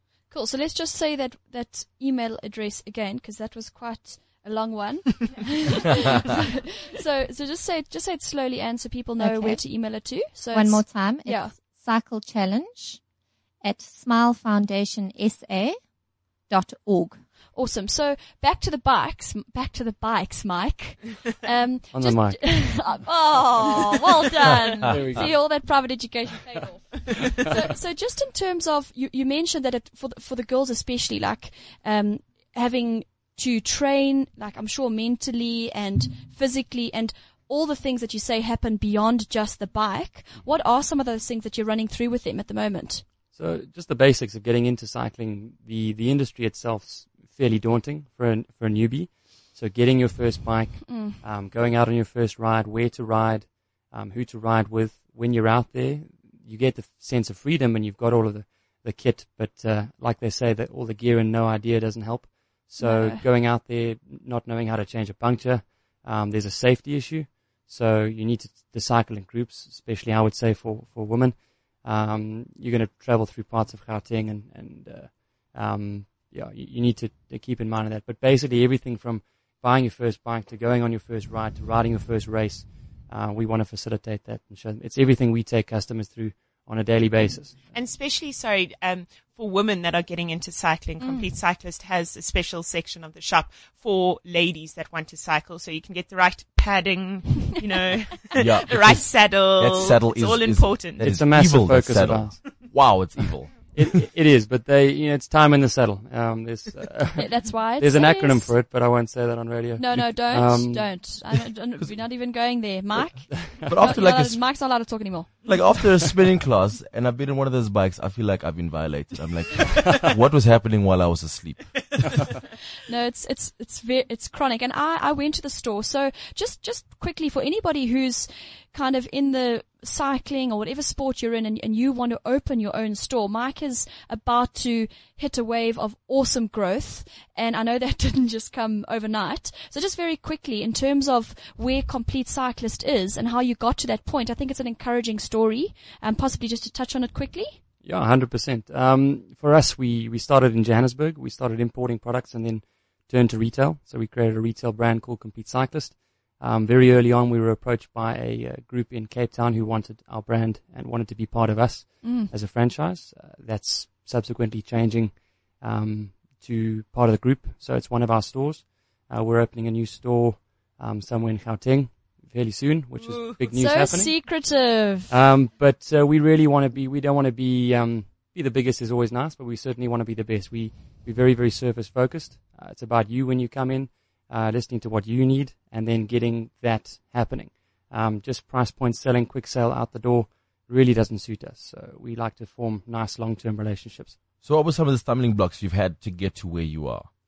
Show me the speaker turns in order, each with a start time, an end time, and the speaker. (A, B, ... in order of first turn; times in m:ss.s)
0:00.3-0:11.6 A
0:09.2-0:09.6 B
0:10.5-0:13.0 B
0:13.6-0:15.8 B
0:16.5-0:17.2 B
0:17.6-0:43.1 A
0:21.9-0:23.1 C
0:23.6-0:24.0 C
0:24.8-0:25.4 C
0:24.9-0:25.4 D
0:27.2-0:27.6 C
0:43.3-1:27.7 C
0:50.8-0:51.2 A
1:02.8-1:03.2 A
1:27.7-1:41.2 E
1:31.0-1:31.3 A
1:38.4-1:43.8 D
1:41.0-1:43.2 C
1:43.7-1:51.2 C
1:47.2-1:48.6 A
1:49.8-1:55.3 A
1:53.4-1:54.0 C
1:53.7-1:54.4 D
1:55.5-2:02.2 D
2:02.9-2:27.6 A
2:27.8-2:54.2 C
2:42.0-2:42.3 A
2:53.0-2:53.5 E
2:53.5-2:55.1 A
2:55.1-3:14.2 C
3:14.4-3:17.1 D